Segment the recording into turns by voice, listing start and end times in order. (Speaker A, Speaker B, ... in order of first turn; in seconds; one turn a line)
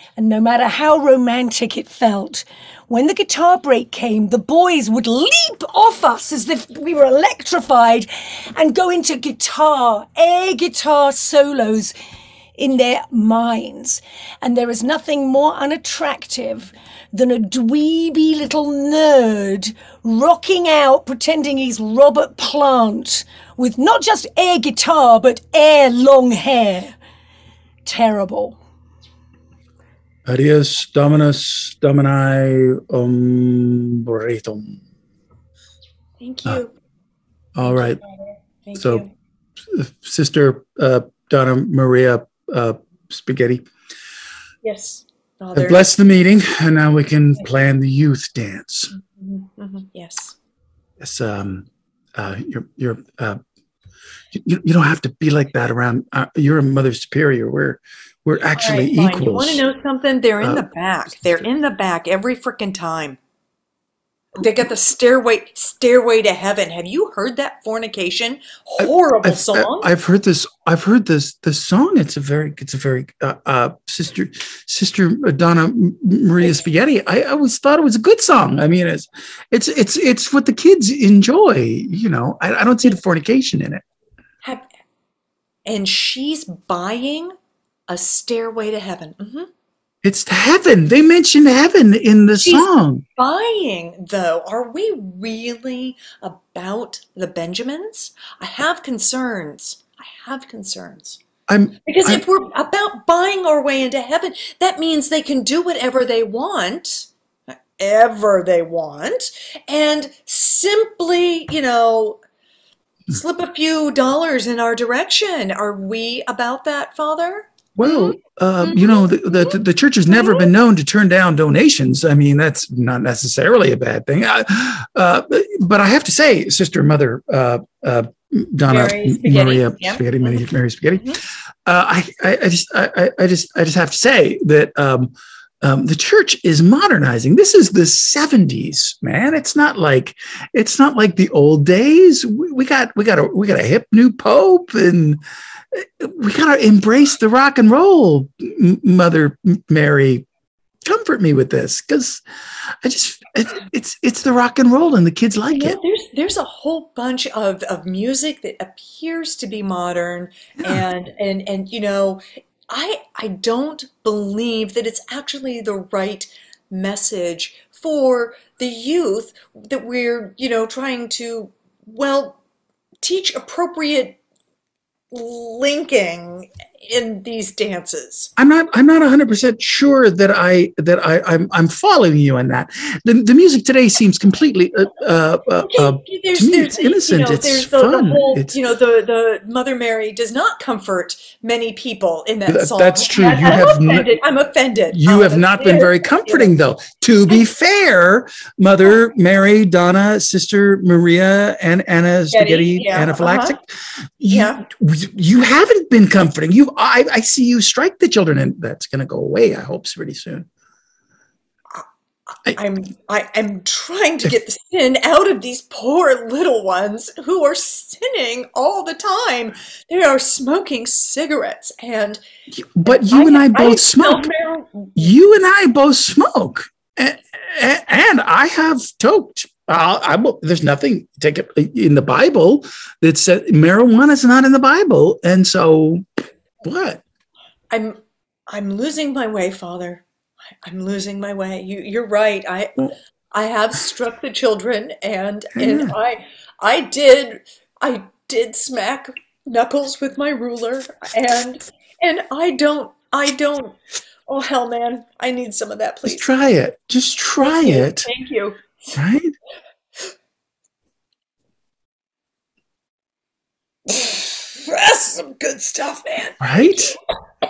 Speaker A: 0.2-11.9
Speaker A: 12.6-27.0
Speaker A: 27.9-28.6
Speaker B: 30.3-34.8
Speaker C: 36.2-36.7
Speaker B: 37.5-38.0
Speaker C: 37.6-39.1
Speaker B: 38.8-39.0
Speaker B: 39.7-43.6
Speaker C: 44.6-45.9
Speaker B: 45.5-48.9
Speaker C: 48.9-50.4
Speaker B: 51.0-53.4
Speaker B: 54.3-59.6
Speaker C: 58.6-63.2
Speaker B: 60.4-60.7
Speaker C: 64.4-69.9
Speaker B: 68.8-83.8
Speaker C: 85.7-87.3
Speaker C: 87.9-89.5
Speaker B: 90.0-93.0
Speaker C: 92.4-101.2
Speaker B: 101.5-102.2
Speaker C: 101.8-112.2
Speaker C: 113.1-119.6
Speaker B: 117.8-145.2
Speaker C: 120.1-120.5
Speaker C: 128.7-130.4
Speaker B: 145.7-150.2
Speaker B: 150.8-152.2
Speaker B: 152.8-155.8
Speaker C: 155.5-172.4
Speaker C: 173.0-174.2
Speaker C: 175.1-178.3
Speaker B: 178.4-188.6
Speaker C: 185.6-196.6
Speaker B: 192.5-194.1
Speaker B: 194.9-203.7
Speaker C: 202.3-203.6
Speaker B: 204.2-210.5
Speaker C: 204.3-204.6
Speaker C: 212.5-222.2
Speaker B: 222.5-224.3
Speaker C: 222.8-225.1
Speaker B: 225.0-236.1
Speaker B: 236.6-237.0
Speaker C: 237.7-240.0
Speaker C: 240.6-256.2
Speaker B: 245.6-246.0
Speaker B: 256.1-258.1
Speaker C: 257.4-258.9
Speaker B: 258.9-259.4
Speaker C: 263.9-266.8
Speaker B: 266.4-267.0